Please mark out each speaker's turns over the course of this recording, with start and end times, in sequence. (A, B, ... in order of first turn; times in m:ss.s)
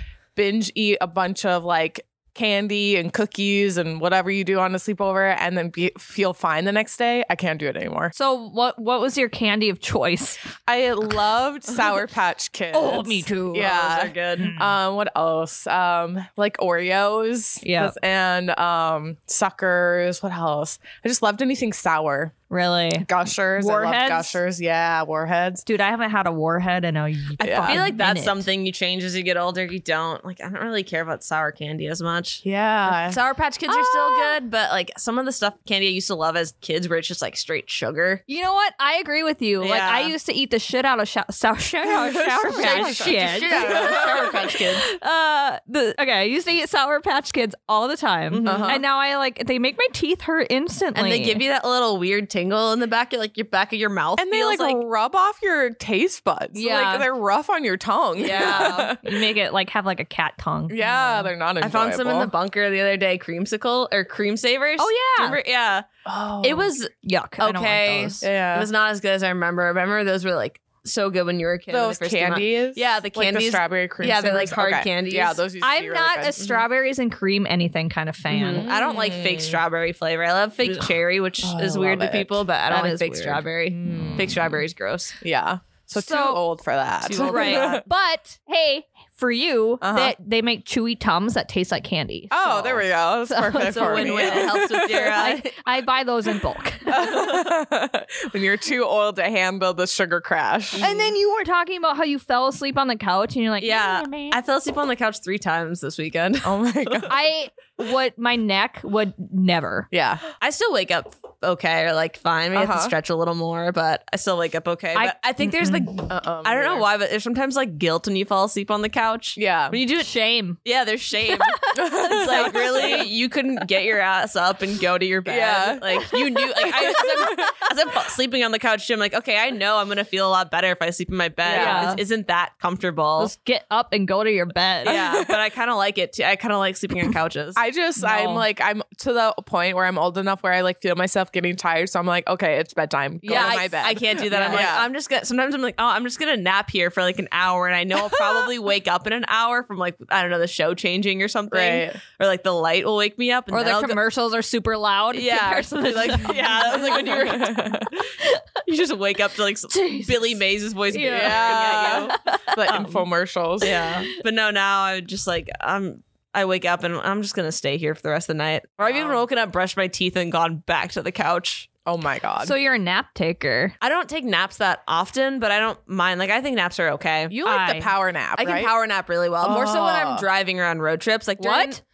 0:00.4-0:08.1 A
0:08.2-0:10.4 B
0:10.6-0:22.3 A
0:12.7-0:13.7 B
0:13.5-0:14.6 C
0:14.4-0:14.8 B
0:17.6-0:18.0 B
0:22.5-0:23.1 B
0:23.0-0:25.6 A
0:23.6-0:24.4 B
0:25.6-0:28.5 B
0:27.4-0:27.8 A
0:27.5-0:38.2 C
0:32.4-0:33.2 A
0:33.7-0:34.4 B
0:38.3-0:51.4 B
0:39.6-0:40.2 C
0:41.8-0:44.6 A
0:42.6-0:44.9 C
0:48.3-0:48.8 C
0:48.4-0:48.8 A
0:51.0-0:54.8 C
0:54.2-0:59.2 A
0:56.6-0:57.1 B
0:58.2-0:59.0 C
0:58.4-1:01.3 B
1:00.7-1:02.3 A
1:01.6-1:05.9 C
1:04.8-1:05.4 B
1:06.1-1:06.7 A
1:06.4-1:15.4 C
1:07.0-1:08.3 B
1:08.2-1:08.7 A
1:11.7-1:16.4 A
1:15.6-1:18.7 B
1:18.3-1:25.2 C
1:18.5-1:19.6 A
1:21.4-1:22.4 A
1:22.7-1:23.4 B
1:23.7-1:24.6 A
1:25.2-1:27.8 A
1:25.9-1:26.4 B
1:27.0-1:27.8 C
1:27.2-1:37.2 B
1:29.8-1:30.2 A
1:32.3-1:35.3 A
1:33.6-1:35.6 C
1:36.9-1:40.8 A
1:40.8-1:41.1 C
1:40.8-1:44.4 B
1:43.6-1:47.1 C
1:46.4-1:47.2 A
1:47.1-1:49.9 B
1:49.9-1:50.2 A
1:50.4-2:00.1 C
1:52.5-1:53.0 A
1:54.9-1:55.9 B
1:55.7-1:56.9 A
1:59.4-1:59.8 A
1:59.8-2:00.6 B
2:00.6-2:13.3 C
2:01.2-2:03.1 B
2:01.8-2:03.1 A
2:05.2-2:07.6 A
2:06.0-2:07.5 B
2:11.4-2:11.9 A
2:11.5-2:12.0 B
2:13.2-2:15.0 B
2:14.8-2:15.4 A
2:14.8-2:17.6 C
2:17.6-2:24.9 A
2:18.0-2:18.4 B
2:23.2-2:24.7 B
2:23.3-2:34.0 C
2:31.5-2:32.0 A
2:33.5-2:37.2 B
2:35.1-2:38.1 C
2:36.7-2:37.9 A
2:38.6-2:43.0 C
2:39.7-2:42.9 B
2:41.1-2:43.8 A
2:43.6-2:51.7 C
2:43.6-2:44.2 B
2:48.8-2:49.2 A
2:51.9-2:52.5 A
2:52.4-2:53.7 B
2:53.8-2:57.4 C
2:57.3-2:58.7 A
2:57.4-2:57.9 B
2:58.4-3:01.8 C
2:59.4-3:00.2 A
3:01.4-3:01.8 B